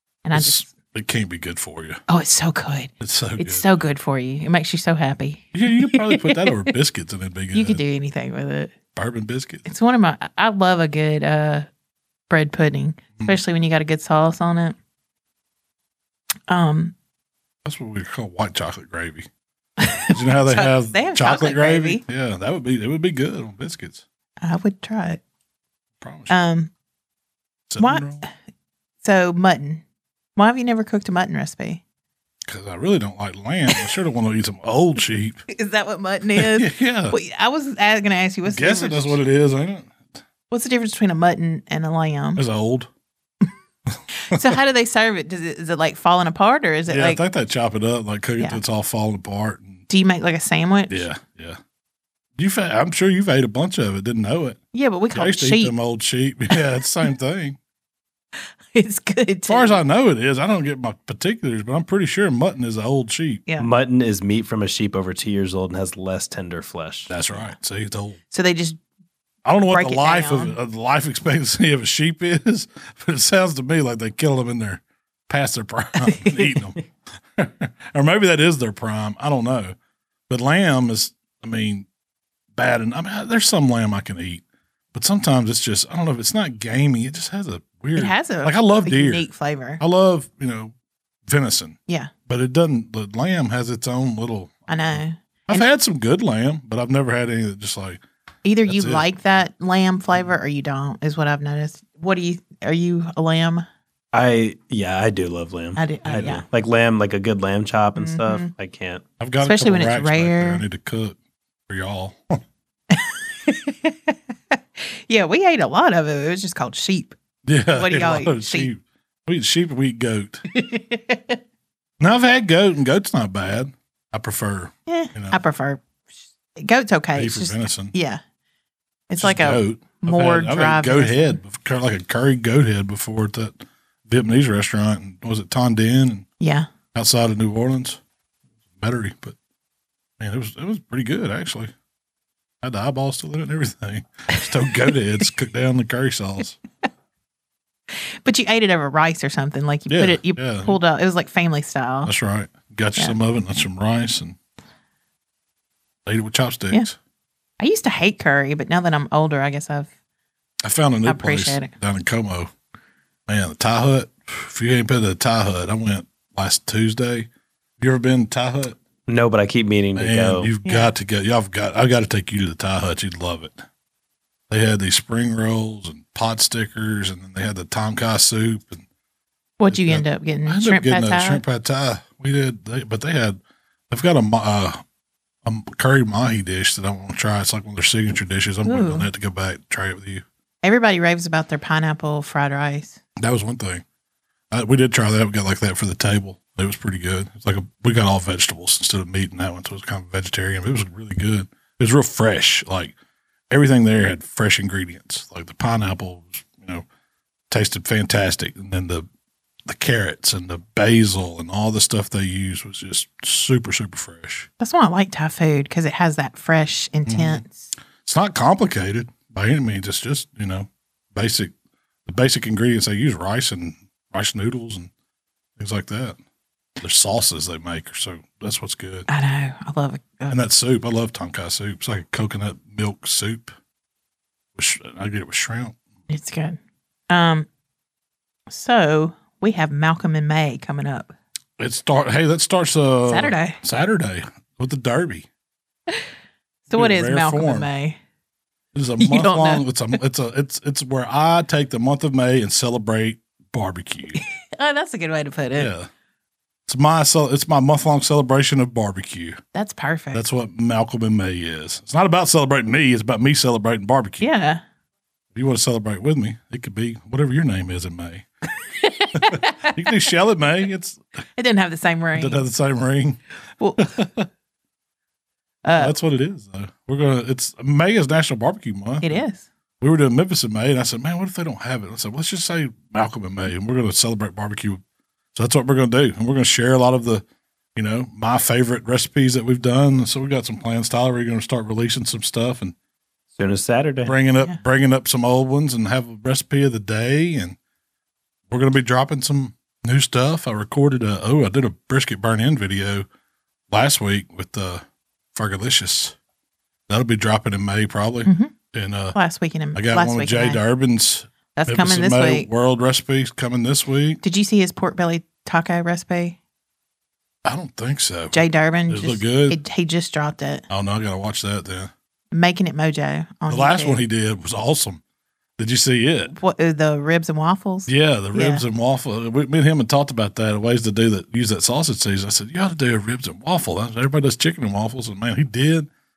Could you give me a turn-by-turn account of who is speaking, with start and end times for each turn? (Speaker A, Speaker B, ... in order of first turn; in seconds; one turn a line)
Speaker A: 0.2-0.7
Speaker B: 0.3-2.0
Speaker A: 2.1-6.7
Speaker B: 3.0-3.8
Speaker B: 5.5-7.8
Speaker A: 7.5-8.7
Speaker B: 8.9-9.7
Speaker A: 9.7-11.7
Speaker A: 12.3-14.8
Speaker A: 16.5-16.9
Speaker B: 17.6-19.3
Speaker A: 19.8-22.0
Speaker B: 20.1-24.0
Speaker A: 24.4-25.2
Speaker B: 26.0-26.3
Speaker A: 26.3-26.7
Speaker B: 27.7-28.2
Speaker A: 27.8-28.3
Speaker A: 29.0-29.8
Speaker A: 30.4-31.8
Speaker B: 32.4-35.4
Speaker A: 35.5-39.2
Speaker B: 36.4-37.2
Speaker B: 38.5-40.1
Speaker A: 40.5-42.4
Speaker B: 42.4-42.9
Speaker A: 44.1-47.2
Speaker B: 46.9-49.8
Speaker A: 49.9-51.0
Speaker B: 50.9-51.6
Speaker B: 52.4-54.6
Speaker A: 54.7-55.7
Speaker B: 55.1-57.6
Speaker A: 58.7-59.8
Speaker B: 59.5-63.4
Speaker C: 63.6-67.1
Speaker B: 67.1-68.2
Speaker A: 68.3-68.8
Speaker B: 69.4-76.8
Speaker A: 69.7-70.5
Speaker A: 76.0-76.6
Speaker B: 77.3-79.7
Speaker B: 80.3-81.9
Speaker B: 82.5-89.3
Speaker A: 87.9-89.8
Speaker B: 89.8-90.7
Speaker B: 91.2-98.0
Speaker A: 94.7-95.6
Speaker A: 98.4-103.7
Speaker B: 98.7-99.0
Speaker C: 104.1-109.0
Speaker A: 105.8-106.4
Speaker A: 108.0-108.5
Speaker B: 109.2-111.2
Speaker A: 109.4-110.6
Speaker B: 111.7-112.4
Speaker A: 112.9-117.1
Speaker B: 117.5-120.4
Speaker A: 117.7-118.7
Speaker A: 120.5-121.4
Speaker B: 122.0-125.4
Speaker A: 124.9-125.8
Speaker A: 126.5-128.2
Speaker B: 127.1-127.9
Speaker A: 129.1-131.4
Speaker B: 129.2-136.2
Speaker A: 136.4-136.7
Speaker B: 136.9-138.0
Speaker B: 138.8-139.3
Speaker B: 140.2-141.7
Speaker B: 142.6-146.6
Speaker A: 147.9-152.1
Speaker B: 149.9-150.8
Speaker B: 152.0-154.4
Speaker B: 156.1-157.0
Speaker A: 157.6-159.9
Speaker B: 160.6-162.5
Speaker A: 161.1-161.7
Speaker B: 163.3-167.3
Speaker B: 167.8-168.8
Speaker C: 169.1-170.5
Speaker B: 169.9-173.6
Speaker A: 170.6-170.9
Speaker B: 174.5-178.8
Speaker A: 179.6-181.4
Speaker B: 179.7-184.8
Speaker B: 185.4-190.2
Speaker A: 188.6-189.1
Speaker A: 190.6-193.0
Speaker B: 193.2-193.8
Speaker B: 194.5-202.9
Speaker B: 203.5-206.8
Speaker B: 207.5-209.1
Speaker B: 209.6-214.5
Speaker A: 214.6-217.7
Speaker B: 217.1-217.4
Speaker B: 218.0-221.5
Speaker B: 222.1-224.9
Speaker B: 225.6-226.2
Speaker B: 226.8-229.1
Speaker A: 229.1-230.3
Speaker B: 230.3-233.5
Speaker B: 234.6-235.8
Speaker A: 236.1-236.6
Speaker A: 237.1-237.5
Speaker A: 238.5-241.1
Speaker B: 241.6-245.3
Speaker A: 243.0-243.6
Speaker A: 246.7-248.0
Speaker B: 246.7-247.7
Speaker B: 248.7-254.2
Speaker A: 249.0-249.7
Speaker A: 254.1-255.7
Speaker B: 255.6-255.9
Speaker B: 256.7-259.4
Speaker A: 259.5-260.2
Speaker B: 260.1-264.3
Speaker A: 264.2-264.6
Speaker B: 265.3-268.2
Speaker A: 268.6-269.8
Speaker B: 269.1-271.0
Speaker A: 271.4-272.4
Speaker B: 272.1-273.2
Speaker A: 273.6-273.9
Speaker B: 273.8-274.3
Speaker A: 275.6-275.9
Speaker B: 275.7-279.2
Speaker A: 279.0-279.4
Speaker B: 279.8-284.8
Speaker B: 285.3-287.2
Speaker B: 287.8-292.7
Speaker C: 293.4-294.1
Speaker B: 294.1-297.6
Speaker B: 298.5-303.1
Speaker B: 303.7-306.1
Speaker B: 306.9-309.1
Speaker A: 308.2-308.5
Speaker A: 309.1-310.6
Speaker B: 309.7-314.2
Speaker A: 311.6-312.5
Speaker A: 314.2-316.4
Speaker B: 317.4-319.6
Speaker A: 318.3-320.6
Speaker B: 320.7-321.9
Speaker A: 322.3-324.0
Speaker B: 323.5-325.0
Speaker B: 325.6-326.3
Speaker A: 326.3-328.6
Speaker B: 327.9-335.9